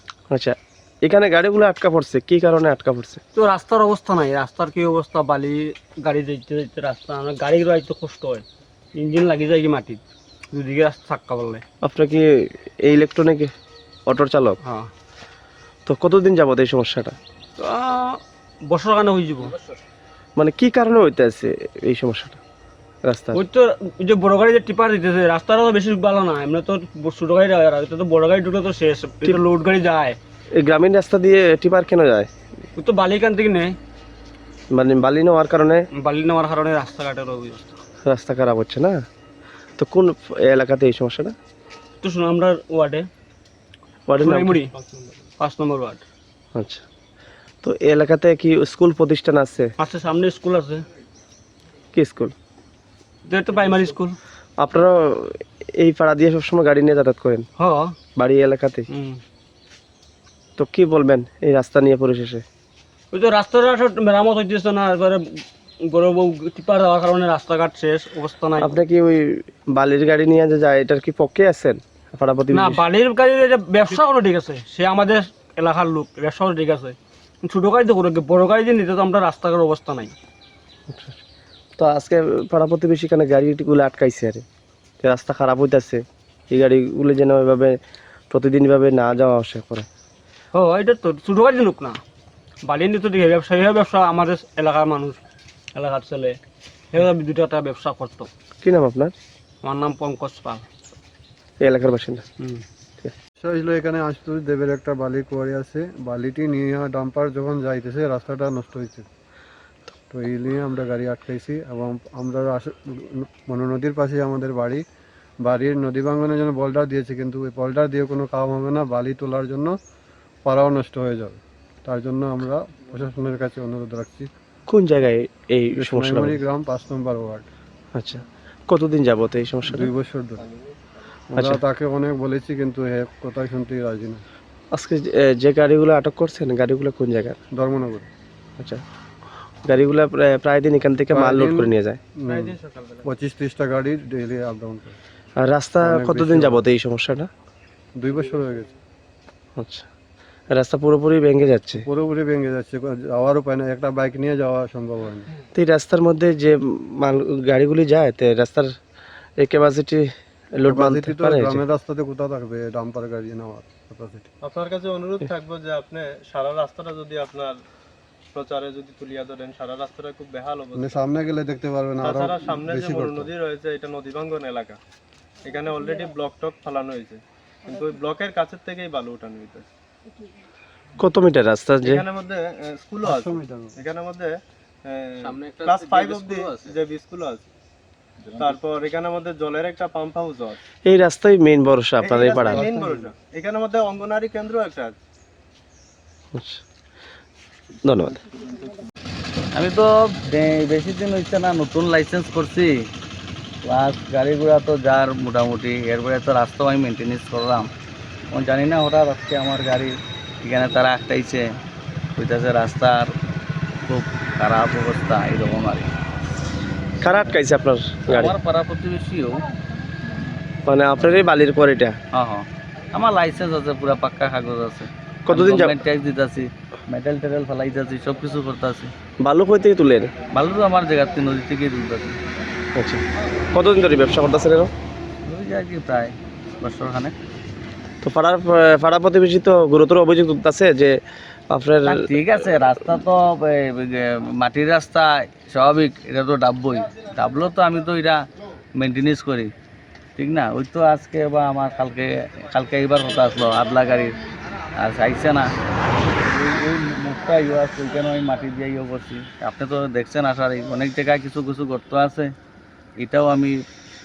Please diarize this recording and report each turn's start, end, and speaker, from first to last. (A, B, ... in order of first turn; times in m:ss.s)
0:00.3-0:03.2 A
0:03.4-0:08.4 B
0:09.0-0:11.6 B
0:11.8-0:13.5 A
0:14.1-0:14.6 A
0:14.6-0:14.9 B
0:15.9-0:17.2 A
0:17.6-0:19.6 B
0:20.4-0:22.4 A
0:23.0-0:23.4 A
0:23.3-0:30.2 B
0:30.6-0:32.3 A
0:32.8-0:33.8 B
0:34.7-0:35.8 A
0:36.0-0:37.7 B
0:38.1-0:39.0 A
0:39.8-0:41.4 A
0:42.0-0:43.1 B
0:44.1-0:44.6 A
0:44.2-0:44.7 B
0:45.4-0:46.0 B
0:46.6-0:46.8 A
0:47.6-0:49.7 A
0:49.8-0:50.8 B
0:51.9-0:52.3 A
0:53.3-0:54.2 B
0:54.6-0:57.5 A
0:57.6-0:58.0 B
0:58.2-0:58.9 A
0:58.9-0:59.2 B
1:00.6-1:02.4 A
1:03.1-1:08.7 B
1:08.6-1:12.8 A
1:12.5-1:20.1 B
1:20.9-1:21.2 A
1:21.8-1:24.4 A
1:25.0-1:27.8 A
1:28.3-1:29.9 A
1:30.5-1:32.0 B
1:32.7-1:35.2 B
1:35.8-1:36.4 B
1:36.9-1:38.3 B
1:38.6-1:39.1 A
1:39.6-1:40.6 B
1:41.6-1:42.2 A
1:43.4-1:49.1 C
1:50.1-1:54.8 C
1:55.4-1:59.8 C
2:00.5-2:04.3 C
2:04.7-2:06.4 A
2:05.8-2:07.5 C
2:08.0-2:09.9 A
2:09.7-2:10.5 C
2:10.4-2:10.8 D
2:11.3-2:14.2 C
2:11.3-2:11.6 A
2:14.7-2:17.4 A
2:17.6-2:18.1 C
2:19.7-2:22.0 A
2:21.1-2:25.0 C
2:22.3-2:23.1 D
2:25.4-2:27.3 A
2:25.8-2:26.6 C
2:28.0-2:28.7 C
2:29.6-2:29.8 A
2:30.5-2:31.8 A
2:31.8-2:35.3 C
2:35.6-2:38.7 A
2:39.4-2:41.6 A
2:40.7-2:44.3 C
2:44.4-2:47.6 D
2:48.3-2:51.1 D
2:50.7-2:53.4 C
2:52.0-2:54.8 D
2:55.4-2:59.6 D
3:01.0-3:02.0 A
3:01.8-3:07.5 D
3:03.0-3:03.7 C
3:08.3-3:10.6 D
3:10.9-3:12.7 A
3:12.0-3:15.0 D
3:16.4-3:16.6 A
3:17.9-3:18.2 A
3:18.1-3:18.9 D
3:19.6-3:22.7 E
3:23.7-3:27.7 E
3:28.3-3:31.4 E
3:32.2-3:33.1 E
3:33.9-3:35.9 E
3:37.0-3:38.4 A
3:38.1-3:39.4 E
3:40.7-3:42.0 A
3:42.1-3:48.9 E
3:45.3-3:45.8 A
3:49.2-3:50.1 A
3:50.3-3:52.2 E
3:52.8-3:53.0 A
3:53.5-3:54.7 A
3:55.3-3:57.1 E
3:58.0-4:02.1 A
4:01.9-4:08.2 E
4:08.8-4:09.5 E
4:10.2-4:14.1 E
4:14.8-4:15.5 E
4:16.3-4:22.3 E
4:23.0-4:23.6 E